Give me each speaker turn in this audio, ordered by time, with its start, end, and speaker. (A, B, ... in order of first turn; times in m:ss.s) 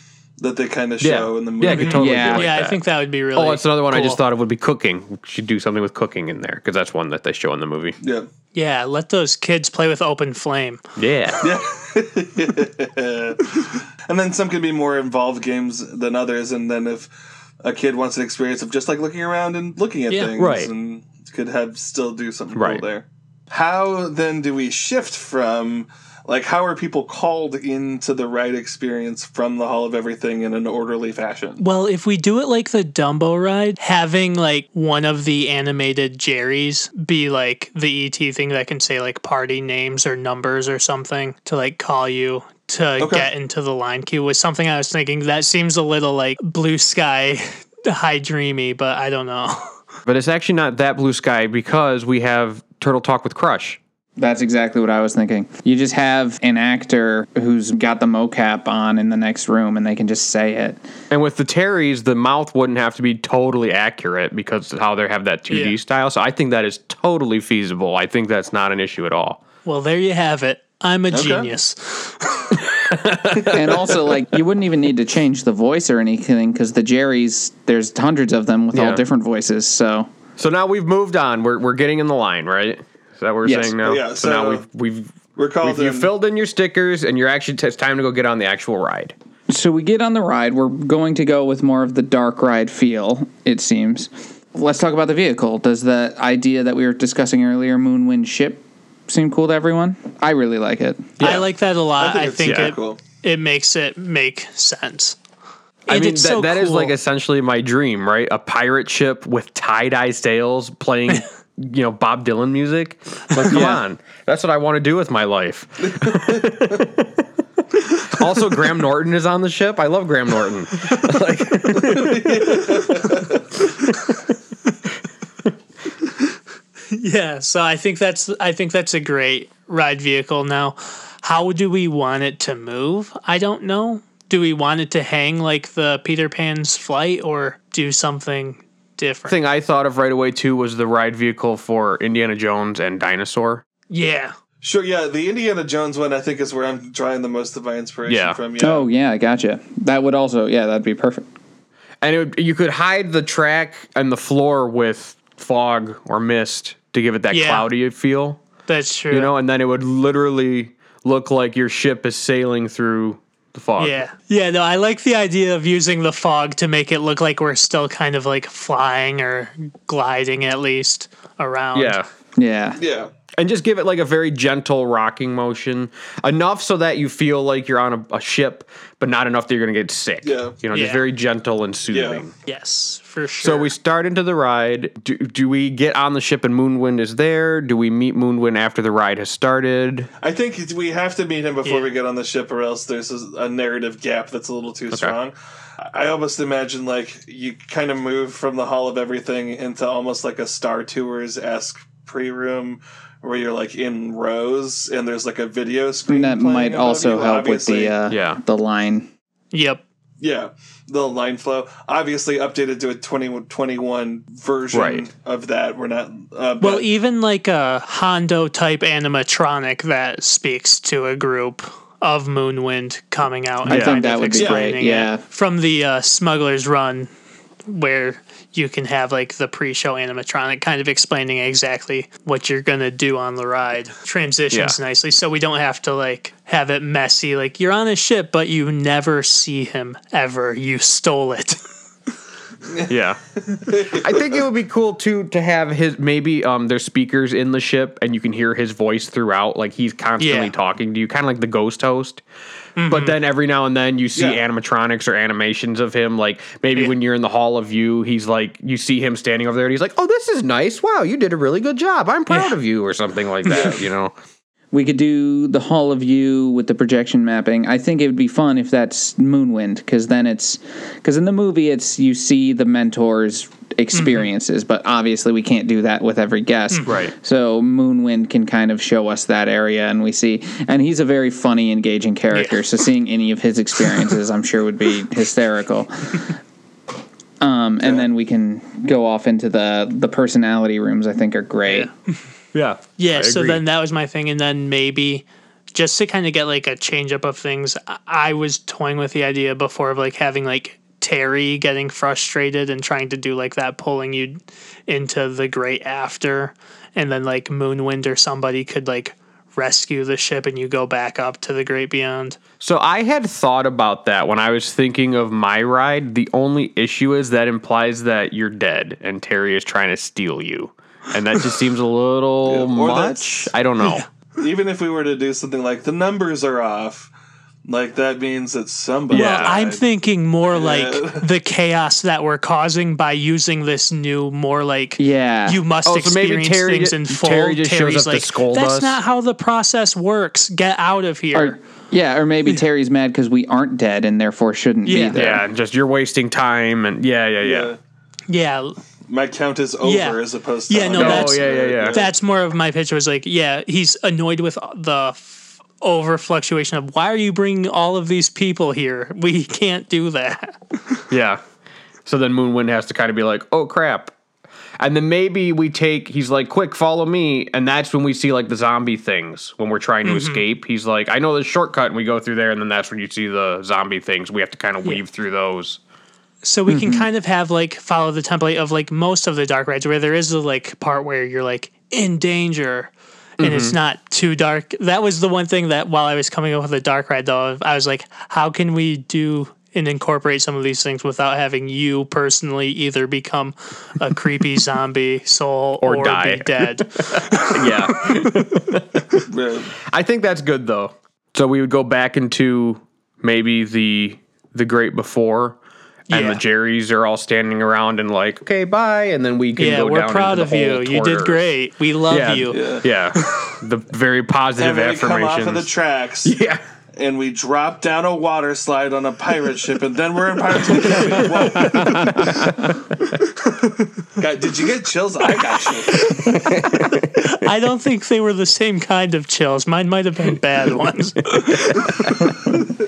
0:00.4-0:02.2 A
0:01.0-0:02.8 B
0:01.7-0:04.2 C
0:02.0-0:02.5 D
0:03.4-0:08.0 B
0:08.0-0:08.3 A
0:08.5-0:10.8 C
0:11.0-0:11.4 B
0:11.4-0:17.1 A
0:17.6-0:31.6 A
0:20.4-0:20.7 B
0:22.5-0:22.8 B
0:31.6-0:49.8 C
0:43.0-0:43.3 A
0:50.1-0:53.8 B
0:54.2-1:00.8 D
1:01.1-1:09.4 B
1:05.5-1:05.8 C
1:09.6-1:12.5 C
1:11.1-1:11.5 A
1:12.6-1:14.1 B
1:13.5-1:20.1 D
1:18.7-1:19.0 B
1:20.4-1:29.1 B
1:23.4-1:23.8 D
1:23.8-1:24.6 A
1:25.4-1:26.1 A
1:29.5-1:41.2 D
1:41.2-1:41.4 B
1:41.2-1:45.2 C
1:42.0-1:43.0 A
1:42.5-1:42.7 B
1:45.9-1:57.2 B
1:45.9-1:46.9 C
1:53.5-1:53.8 D
1:56.0-1:56.4 A
1:58.0-2:02.8 B
2:01.7-2:03.6 A
2:06.9-2:19.4 C
2:19.3-2:23.6 B
2:23.9-2:24.3 C
2:24.6-2:28.9 A
2:28.1-2:28.4 B
2:28.6-2:31.3 D
2:32.0-2:38.4 B
2:37.3-2:37.7 C
2:38.7-2:39.3 C
2:39.1-2:44.0 B
2:43.8-2:52.0 C
2:51.8-2:52.0 B
2:52.4-2:52.8 D
2:52.8-2:53.1 A
2:53.4-3:02.3 B
3:00.2-3:00.5 A
3:00.7-3:01.0 C
3:01.9-3:02.2 A
3:02.4-3:03.7 C
3:03.4-3:10.1 B
3:10.2-3:28.0 A
3:26.1-3:29.1 D
3:28.1-3:28.4 B
3:29.5-3:29.8 C
3:30.2-3:36.9 A
3:34.7-3:35.1 B
3:36.6-3:47.1 C
3:43.6-3:45.2 D
3:43.7-3:44.1 B
3:44.4-3:44.7 A
3:47.7-4:01.6 C
4:02.7-4:02.9 A
4:02.9-4:03.2 B
4:03.5-4:04.4 A
4:03.9-4:12.2 B
4:10.2-4:10.5 C
4:12.8-4:13.2 C
4:12.9-4:24.1 B
4:14.2-4:14.4 A
4:22.3-4:22.6 C
4:23.5-4:23.7 C
4:23.6-4:23.8 A
4:24.7-4:46.3 D
4:33.9-4:34.3 C
4:36.9-4:37.1 B
4:42.3-4:42.6 C
4:47.4-4:51.9 D
4:51.7-4:51.9 C
4:52.5-4:53.6 B
4:53.0-5:12.4 C
5:12.6-5:24.1 B
5:22.5-5:23.5 A
5:24.4-5:27.1 A
5:27.6-5:29.8 A
5:29.1-5:29.6 B
5:29.1-5:41.6 C
5:30.5-5:31.3 A
5:35.0-5:35.6 D
5:35.8-5:39.0 B
5:41.3-5:45.4 D
5:44.9-5:45.2 C
5:45.1-5:47.7 B
5:47.4-5:47.8 A
5:48.3-5:48.8 C
5:49.1-5:52.1 A
5:49.8-6:01.0 C
5:51.0-5:52.0 B
6:01.1-6:01.4 B
6:02.1-6:04.1 B
6:04.8-6:15.8 B
6:10.0-6:10.4 C
6:16.4-6:38.7 C
6:16.7-6:17.1 D
6:23.4-6:23.8 B
6:35.8-6:39.2 B
6:39.3-6:39.7 A
6:39.9-6:45.6 B
6:46.1-6:46.4 C
6:46.1-6:51.5 B
6:49.6-6:52.6 C
6:52.1-6:55.7 B
6:52.5-6:52.9 A
6:53.2-6:53.5 C
6:54.6-6:56.4 A
6:56.2-6:56.6 B
6:56.9-7:02.8 A
7:00.9-7:02.7 B
7:04.2-7:06.4 A
7:06.0-7:06.5 C
7:06.1-7:07.3 B
7:07.2-7:12.4 C
7:11.5-7:12.6 B